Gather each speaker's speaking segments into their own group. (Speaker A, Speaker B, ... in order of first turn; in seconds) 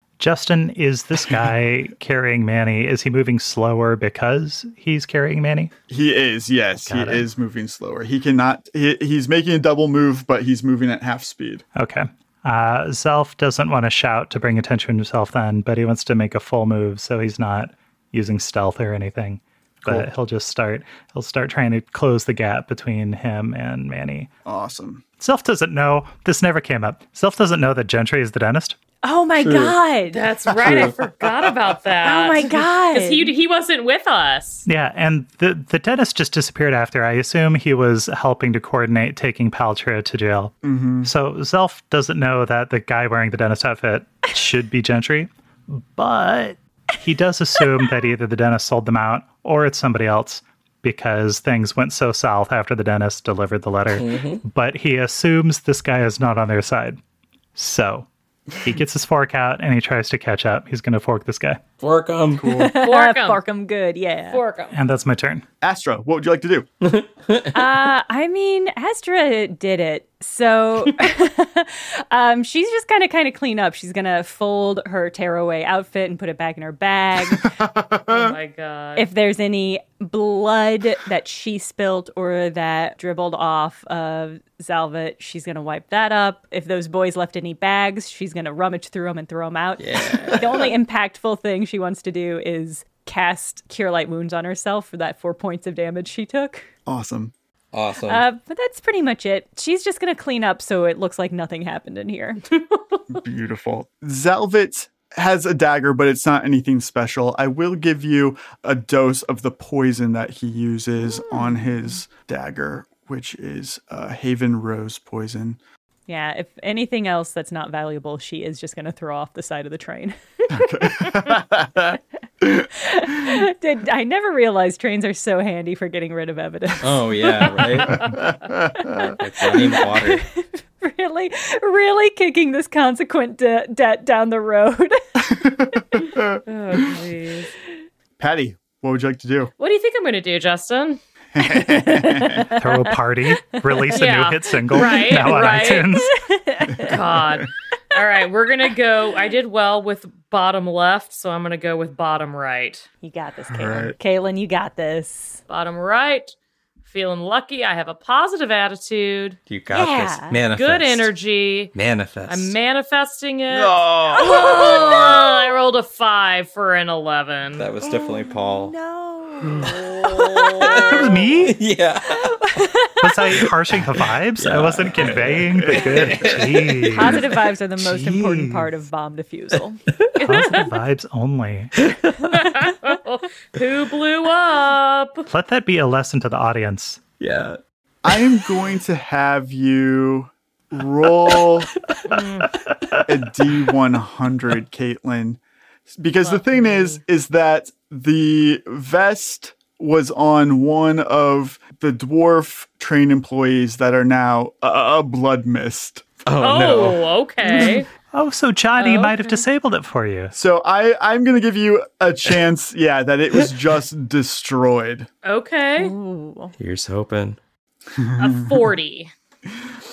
Speaker A: 0.2-5.7, 6.8-7.2, 11.8-24.3, 25.2-28.8, 34.6-57.0, 57.5-58.1, 58.6-61.6, 64.7-65.4, 142.6-146.1, 170.8-171.6, 173.0-178.7, 180.2-181.7, 185.3-187.0, 192.7-193.0, 208.1-210.3
Speaker B: 5.9-11.6, 19.8-20.1, 24.4-25.0, 40.6-41.1, 62.4-62.7, 65.6-66.7, 77.3-78.3, 96.8-97.3, 103.1-115.6, 120.5-122.7, 127.9-129.1, 135.3-136.4, 138.2-139.5, 141.3-142.4, 146.9-147.4, 153.5-153.9, 188.0-191.7, 193.1-206.1, 210.3-215.1, 217.9-218.6
Speaker C: 29.0-30.8, 32.0-33.3, 62.5-64.4, 67.5-77.5, 79.0-96.7, 98.0-102.4, 111.3-111.6, 116.1-121.0, 122.7-127.9, 128.8-135.2, 141.4-143.9, 145.9-146.9, 153.0-155.4, 159.7-160.4, 167.8-171.0, 172.2-173.0, 176.9-179.8, 215.8-216.5
Speaker D: 29.4-29.8, 30.5-31.0, 53.9-54.4, 61.8-62.6, 66.8-67.5, 89.8-90.7, 97.7-98.2, 126.8-128.2, 129.2-130.2, 159.5-161.1, 161.7-162.6, 163.5-165.2, 167.6-168.7, 169.4-172.8, 173.3-177.2, 187.2-187.6, 206.2-207.0, 216.6-217.4
Speaker E: 30.1-34.6, 62.8-63.4, 64.3-64.7, 78.1-79.1, 136.5-137.5, 139.6-141.0, 143.9-145.9, 146.8-152.8, 155.5-156.3, 156.8-159.4, 160.5-161.7, 162.2-167.7, 180.2-180.7, 182.3-185.3, 192.1-192.5, 196.2-197.0, 206.4-207.9, 208.8-209.2, 215.2-215.9, 218.2-219.1